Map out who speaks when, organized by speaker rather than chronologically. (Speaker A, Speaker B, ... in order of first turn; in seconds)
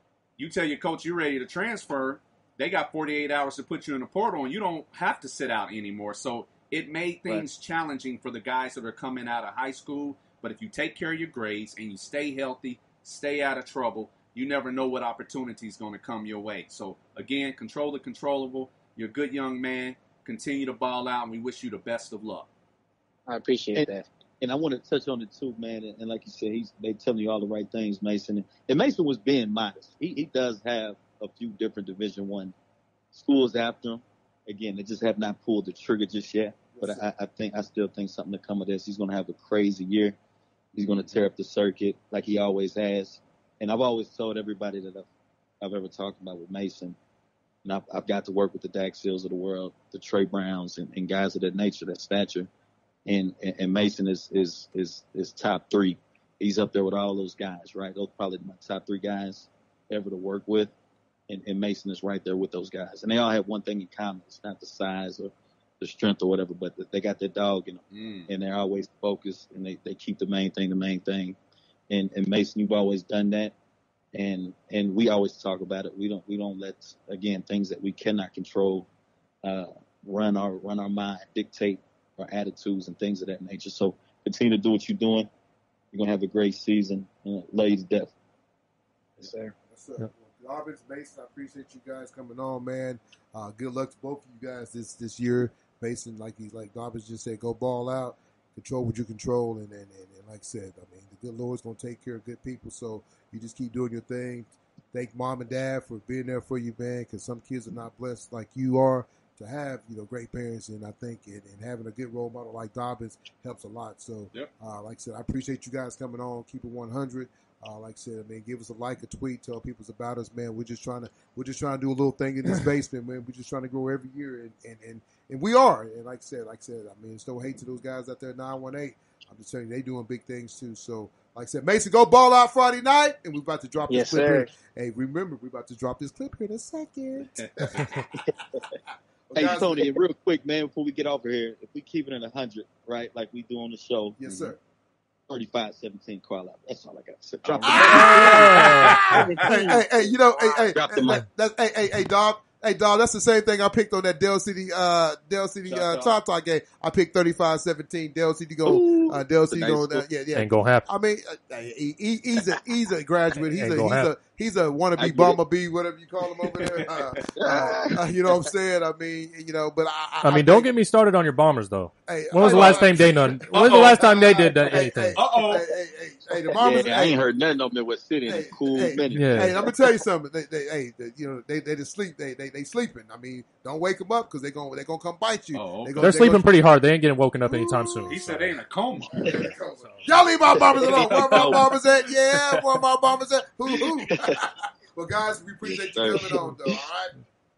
Speaker A: 0.4-22.5, 67.9-68.3, 137.4-137.8, 144.2-144.5, 147.4-149.4, 155.7-156.1, 166.4-167.2, 172.5-172.9, 173.5-174.2, 175.1-175.7, 185.5-186.2, 188.0-189.5, 190.8-192.8
Speaker B: 23.3-24.1, 89.2-89.5, 133.9-134.5, 147.8-150.7
Speaker C: 23.7-32.5, 33.1-40.2, 40.7-45.1, 45.6-47.0, 47.6-52.5, 53.0-60.7, 61.3-71.4, 71.9-73.5, 74.1-78.9, 79.4-85.3, 85.9-88.1, 139.3-144.2, 145.3-148.9, 150.7-151.2, 158.6-160.1, 165.0-165.4, 167.3-168.0, 176.5-180.0, 190.7-191.5, 193.7-194.4, 195.6-196.8
Speaker D: 36.7-37.0, 89.7-138.0, 139.3-139.9, 144.2-144.6, 147.6-170.7, 172.1-177.2, 178.2-186.6, 187.5-188.3, 189.1-197.2
Speaker E: 160.3-160.9, 163.5-164.1, 170.2-175.2, 179.1-179.6, 186.0-189.1, 189.8-190.1